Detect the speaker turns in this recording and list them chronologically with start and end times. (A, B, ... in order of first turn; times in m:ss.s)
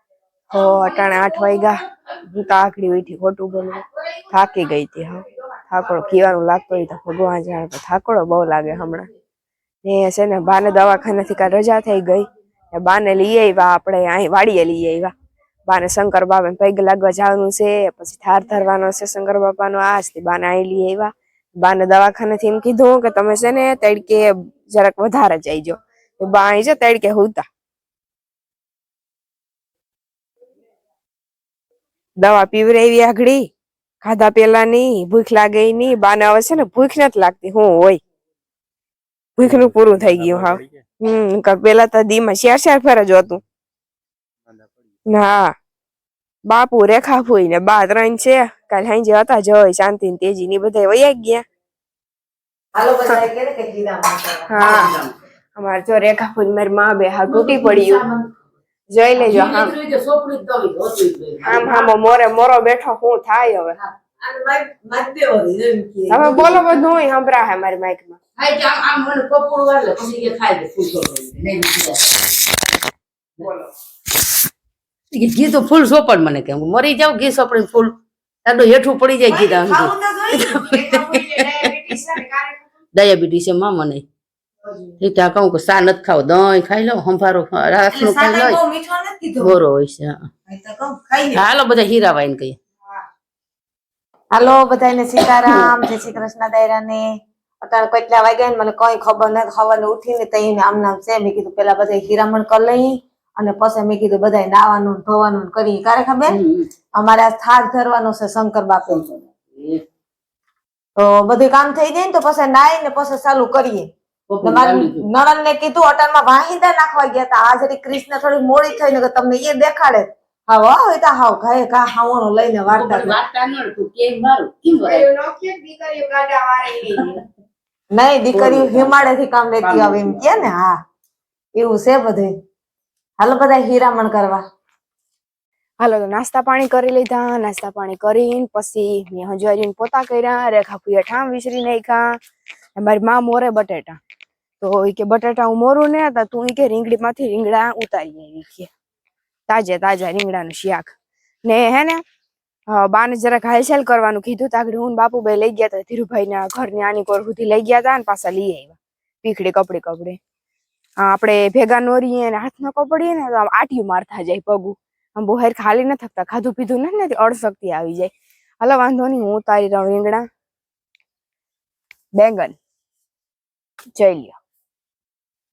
0:00.5-0:09.1 A
0:09.8-0:15.1 A
0:15.7-0:27.4 A
0:32.2-0:33.5 A
0:34.0-0:38.0 A
0:39.4-0:43.4 A
0:45.1-0:45.5 A
0:46.5-0:51.4 A
0:52.7-0:54.9 B
0:54.5-0:54.9 A
0:54.6-0:55.1 C
0:55.6-0:58.0 A
0:57.3-0:58.3 C
0:58.9-0:59.8 A
0:59.2-1:01.7 C
1:01.4-1:03.8 A
1:01.6-1:01.8 B
1:04.2-1:06.7 B
1:06.1-1:08.2 A
1:08.4-1:12.2 C
1:15.1-1:21.7 C
1:19.3-1:21.3 B
1:20.6-1:22.6 A
1:22.9-1:24.0 C
1:24.6-1:24.9 B
1:25.0-1:28.6 C
1:27.9-1:29.6 B
1:29.4-1:30.3 C
1:30.5-1:31.4 B
1:31.3-1:32.6 C
1:34.3-1:37.1 B
1:37.6-1:46.4 B
1:46.3-1:46.7 C
1:46.9-1:49.2 B
1:49.5-1:49.8 C
1:51.0-1:53.9 B
1:54.3-1:55.0 C
1:54.4-2:03.2 B
2:02.7-2:05.0 C
2:04.8-2:07.2 A
2:07.9-2:10.8 B
2:08.3-2:09.1 C
2:09.6-2:10.5 C
2:11.6-2:12.3 B
2:13.2-2:14.4 B
2:15.8-2:22.2 A
2:22.8-2:24.0 A
2:24.6-2:28.7 A
2:29.5-2:32.0 A
2:32.7-2:40.2 A
2:41.0-2:50.2 A
2:52.2-2:52.6 A
2:54.0-2:54.4 A